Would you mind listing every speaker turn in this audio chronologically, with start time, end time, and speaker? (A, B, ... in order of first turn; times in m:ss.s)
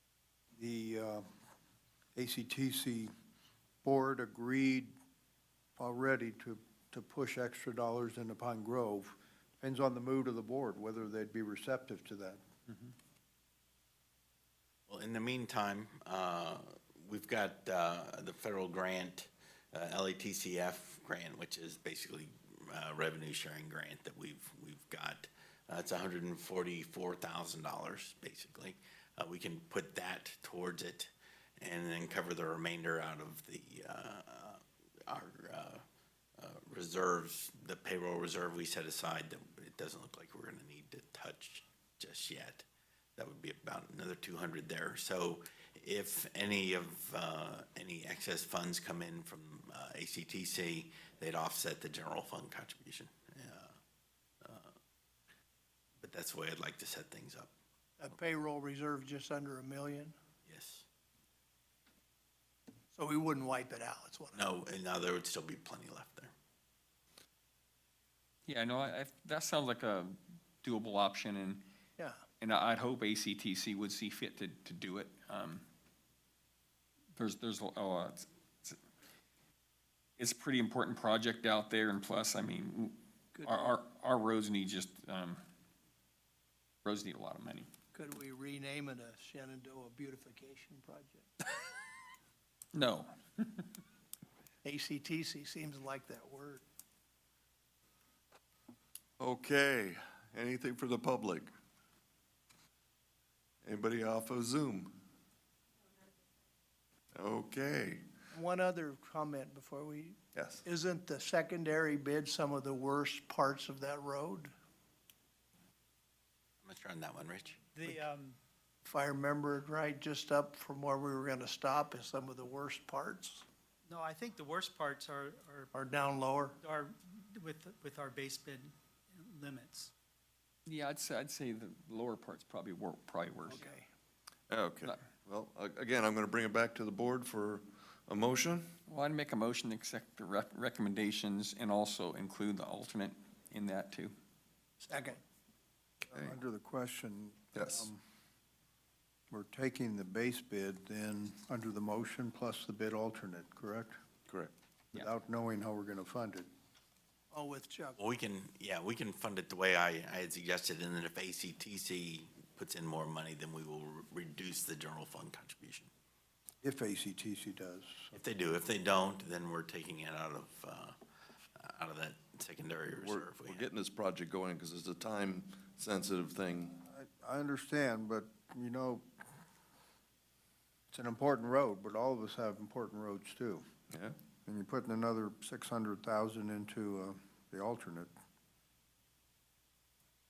0:00.6-0:01.3 A
0:02.1-0:03.1 A
0:03.8-0:04.9 A
0:05.8-0:12.4 A
0:14.9-0:35.8 B
0:36.4-0:42.7 B
0:43.2-0:53.7 B
0:54.4-0:54.7 B
0:56.0-0:57.5 B
0:58.0-1:00.2 C
1:00.5-1:00.9 B
1:02.9-1:04.4 C
1:04.3-1:06.3 B
1:08.5-1:11.6 D
1:12.4-1:15.6 D
1:17.1-1:18.8 D
1:20.2-1:25.4 D
1:23.3-1:23.7 C
1:26.8-1:27.7 D
1:27.9-1:31.3 C
1:32.7-1:33.8 D
1:34.6-1:36.6 C
1:39.2-1:41.5 E
1:43.6-1:45.0 E
1:47.1-1:48.0 E
1:48.3-1:54.5 C
1:50.3-1:50.6 E
1:56.6-1:57.6 B
1:57.7-1:58.4 F
1:58.8-2:03.4 C
2:03.9-2:05.8 F
2:05.8-2:06.6 C
2:06.6-2:09.9 F
2:10.7-2:13.6 D
2:13.5-2:13.9 C
2:14.5-2:18.8 E
2:18.8-2:24.1 D
2:24.8-2:25.2 C
2:26.1-2:28.0 A
2:27.5-2:27.9 E
2:29.3-2:34.0 A
2:34.9-2:36.5 A
2:37.3-2:38.0 C
2:38.0-2:45.9 B
2:46.6-2:48.2 A
2:48.1-2:51.0 B
2:51.6-2:53.6 B
2:52.9-2:56.8 E
2:56.8-2:59.1 A
3:00.9-3:03.7 A
3:03.9-3:04.2 E
3:04.4-3:08.1 A